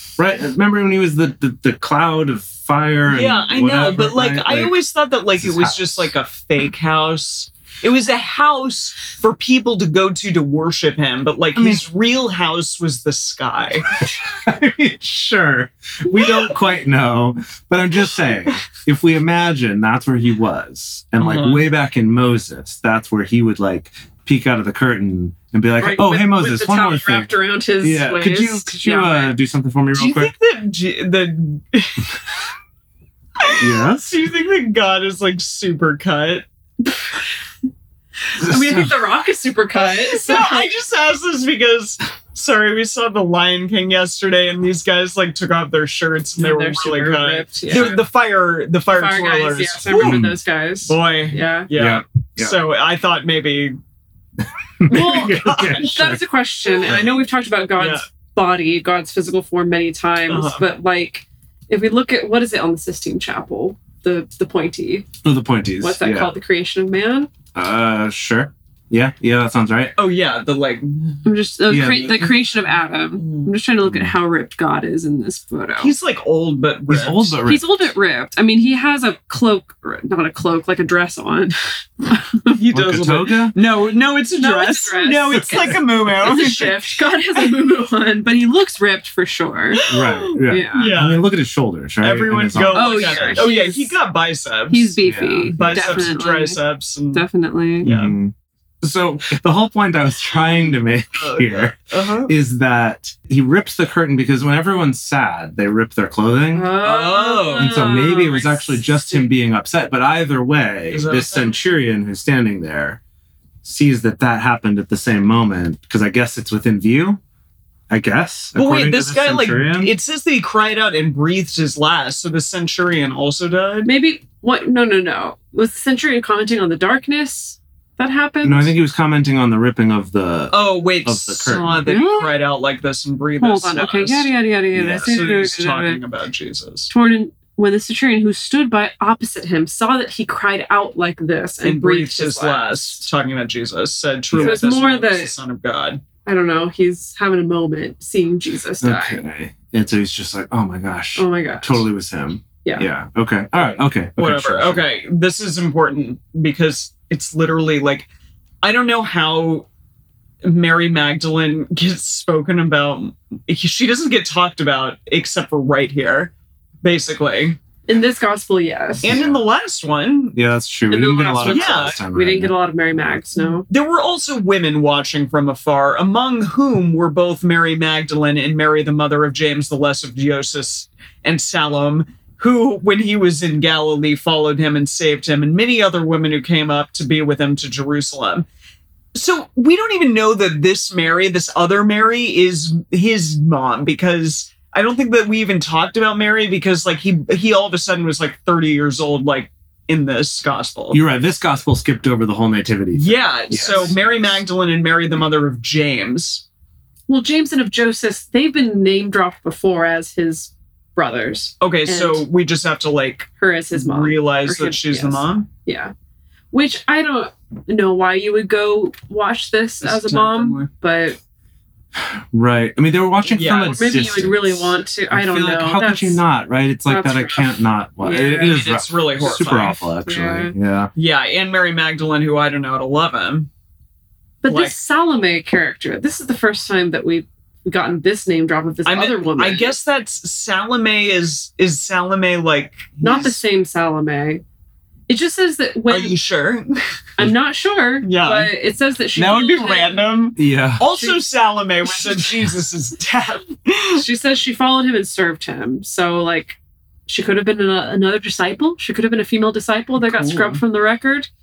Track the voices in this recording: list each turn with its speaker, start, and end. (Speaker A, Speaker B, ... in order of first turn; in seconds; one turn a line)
Speaker A: 0.2-4.7
Speaker B: 3.1-13.9
Speaker A: 5.4-6.1
Speaker A: 11.5-11.8
Speaker A: 13.9-30.3
Speaker B: 21.2-21.6
Speaker C: 25.8-29.3
Speaker B: 29.9-32.2
Speaker B: 33.4-36.4
Speaker A: 33.5-34.1
Speaker C: 38.3-40.7
Speaker A: 38.4-39.0
Speaker B: 40.0-50.3
Speaker C: 46.4-48.0
Speaker A: 47.7-48.0
Speaker C: 48.9-51.7
Speaker A: 50.0-50.4
Speaker B: 50.9-53.8
Speaker A: 51.7-52.6
Speaker A: 54.8-56.2
Speaker B: 54.9-55.9
Speaker C: 54.9-65.1
Speaker B: 57.8-58.0
Speaker B: 60.3-60.6
Speaker A: 65.2-66.3
Speaker C: 65.8-67.3
Speaker A: 67.5-69.9
Speaker B: 70.0-71.2
Speaker C: 71.2-75.9
Speaker A: 71.7-72.3
Speaker B: 73.2-73.5
Speaker A: 73.8-74.1
Speaker B: 75.8-77.3
Speaker A: 76.9-77.7
Speaker C: 77.5-82.5
Speaker B: 82.5-86.8
Speaker A: 82.7-83.5
Speaker C: 84.4-89.8
Speaker A: 85.3-85.8
Speaker B: 89.7-91.2
Speaker A: 89.9-93.4
Speaker C: 90.5-90.9
Speaker B: 92.0-95.0
Speaker C: 92.7-93.9
Speaker C: 94.7-96.6
Speaker A: 95.0-96.1
Speaker B: 95.5-97.2
Speaker C: 97.1-97.9
Speaker B: 97.8-98.2
Speaker A: 97.8-106.7
Speaker B: 101.1-102.3
Speaker C: 106.5-109.1
Speaker B: 106.8-107.9
Speaker A: 107.5-113.0
Speaker B: 110.9-111.6
Speaker A: 113.6-117.2
Speaker A: 117.9-119.9
Speaker B: 118.5-123.9
Speaker C: 123.8-128.7
Speaker A: 128.4-131.9
Speaker B: 130.5-134.3
Speaker C: 131.9-132.3
Speaker C: 133.4-136.0
Speaker A: 134.7-135.2
Speaker B: 135.0-136.9
Speaker C: 136.9-143.0
Speaker B: 141.6-146.0
Speaker A: 144.3-144.6
Speaker C: 144.4-145.3
Speaker C: 146.2-149.2
Speaker A: 148.8-154.8
Speaker C: 151.2-151.9
Speaker B: 154.2-158.1
Speaker B: 158.6-159.7
Speaker B: 160.4-166.3
Speaker B: 166.8-167.6
Speaker C: 167.9-169.1
Speaker B: 169.0-170.4
Speaker A: 169.0-169.4
Speaker A: 170.3-172.5
Speaker C: 170.9-173.7
Speaker B: 171.4-172.0
Speaker B: 173.4-188.4
Speaker B: 189.1-201.0
Speaker A: 200.9-204.4
Speaker B: 202.9-206.4
Speaker C: 207.1-212.2
Speaker B: 211.6-215.5
Speaker C: 213.4-215.9
Speaker C: 216.5-221.2
Speaker B: 219.8-220.7
Speaker A: 221.9-230.9
Speaker B: 223.3-223.8
Speaker C: 223.4-226.2
Speaker C: 226.8-228.6
Speaker B: 228.1-229.8
Speaker C: 229.2-230.5
Speaker B: 230.9-233.5
Speaker C: 234.4-239.8
Speaker B: 234.5-234.7
Speaker B: 238.8-243.4
Speaker C: 243.0-244.4
Speaker C: 245.1-246.2
Speaker B: 245.9-246.8
Speaker C: 247.2-250.0
Speaker B: 248.0-248.5
Speaker B: 249.2-254.0
Speaker A: 250.4-250.8
Speaker C: 250.8-251.2
Speaker C: 253.9-261.3
Speaker B: 260.0-260.6